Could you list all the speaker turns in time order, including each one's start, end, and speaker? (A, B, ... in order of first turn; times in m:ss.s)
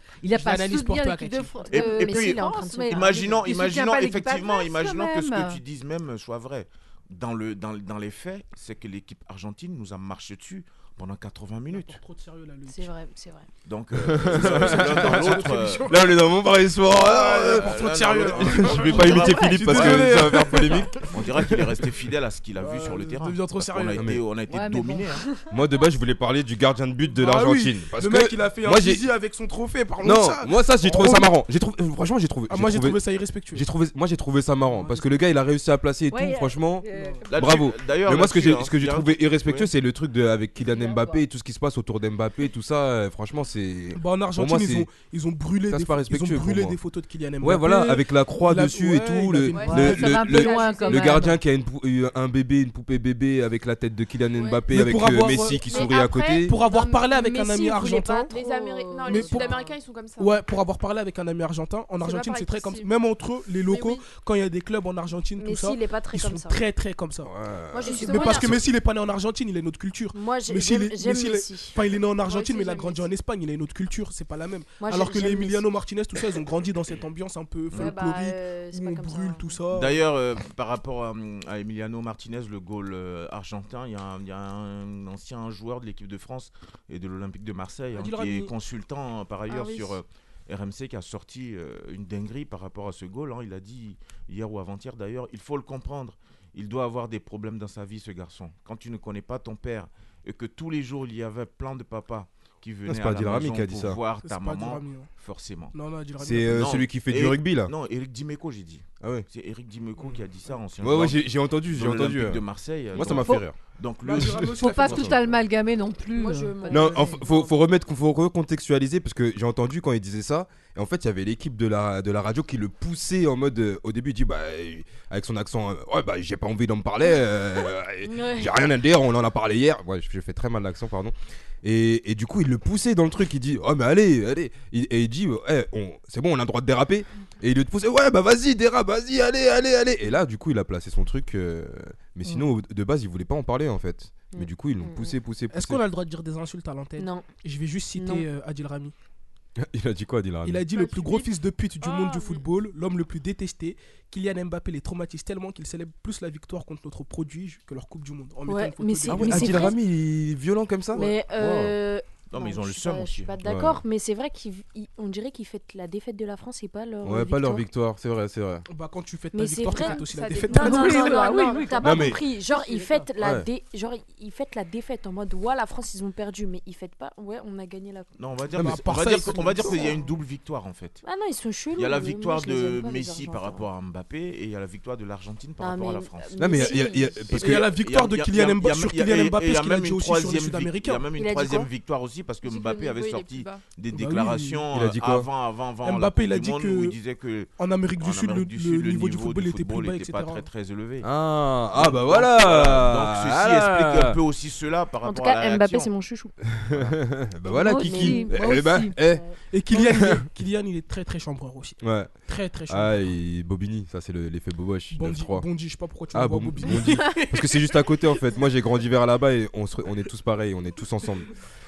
0:00.2-0:05.6 A
0:00.3-0:01.7 B
0:01.7-0:03.5 C
0:01.7-0:12.0 D
0:11.7-0:12.9 B
0:12.7-0:13.5 C
0:13.6-0:16.0 D
0:13.9-0:21.8 E
0:14.3-0:16.3 B
0:16.9-0:21.3 B
0:17.2-0:25.2 D
0:22.6-0:24.0 B
0:24.0-0:24.2 E
0:24.5-0:25.2 A
0:25.5-0:29.1 E
0:27.1-0:31.3 B
0:30.0-0:33.0 E
0:32.5-0:33.6 B
0:33.5-0:44.9 E
0:36.1-0:37.4 A
0:36.9-0:37.2 B
0:37.3-0:39.7 D
0:40.6-0:41.2 A
0:43.9-0:50.2 B
0:45.6-0:46.8 E
0:47.4-0:56.6 E
0:49.5-0:51.2 F
0:49.6-0:51.4 A
0:54.4-0:54.6 F
0:54.7-0:55.7 B
0:55.6-0:57.1 F
0:55.7-0:59.8 C
0:56.4-0:58.3 B
0:58.3-1:00.4 F
0:59.0-0:59.6 B
1:00.2-1:07.3 B
1:02.0-1:02.9 F
1:03.6-1:04.0 F
1:05.4-1:06.6 C
1:07.2-1:08.6 E
1:07.7-1:08.5 C
1:07.8-1:08.4 F
1:07.9-1:20.1 B
1:10.1-1:11.8 C
1:12.1-1:13.1 F
1:14.8-1:15.7 C
1:17.7-1:19.6 C
1:19.7-1:45.7 D
1:27.9-1:28.5 B
1:29.5-1:30.0 F
1:42.8-1:44.0 E
1:44.2-1:45.1 B
1:45.7-1:46.7 B
1:46.2-1:47.7 E
1:46.5-1:54.5 D
1:49.0-1:49.2 E
1:50.8-1:53.6 E
1:53.0-1:53.5 A
1:54.0-1:55.4 B
1:54.1-1:55.1 E
1:54.5-1:57.1 A
1:56.1-1:57.5 C
1:56.7-2:25.8 E
2:08.0-2:08.6 C
2:24.3-2:25.1 C
2:25.5-2:28.9 B
2:27.0-2:27.3 C
2:27.9-2:28.3 C
2:29.6-2:30.6 E
2:30.4-2:39.8 B
2:30.8-2:31.2 F
2:31.8-2:32.3 C
2:32.0-2:32.3 F
2:38.4-2:39.8 C
2:39.1-2:41.7 E
2:40.9-2:47.6 C
2:42.3-2:43.3 D
2:43.4-2:43.8 E
2:47.0-2:48.6 E
2:48.7-2:51.2 B
2:49.3-2:58.1 C
2:50.1-2:51.6 F
2:50.4-2:52.2 A
2:51.8-2:52.2 E
2:53.2-2:53.5 E
2:58.2-3:01.0 D
2:58.5-2:59.4 E
2:58.6-3:00.1 B
2:59.6-2:59.9 C
3:01.0-3:03.7 C
3:01.7-3:06.4 D
3:05.6-3:07.3 C
3:06.4-3:07.7 E
3:07.3-3:21.1 D
3:07.4-3:11.0 B
3:11.2-3:11.7 C
3:12.4-3:13.6 F
3:13.9-3:14.6 B
3:14.7-3:15.3 E
3:15.8-3:17.0 B
3:17.6-3:20.4 B
3:21.0-3:24.2 E
3:21.7-3:25.9 D
3:25.0-3:26.3 C
3:26.5-3:30.3 E
3:26.7-3:27.0 D
3:27.5-3:29.0 A
3:27.8-3:28.4 C
3:29.1-3:29.3 C
3:29.5-3:33.1 B
3:31.8-3:32.1 E
3:32.7-3:35.5 E
3:34.9-3:37.8 B
3:36.1-3:41.3 E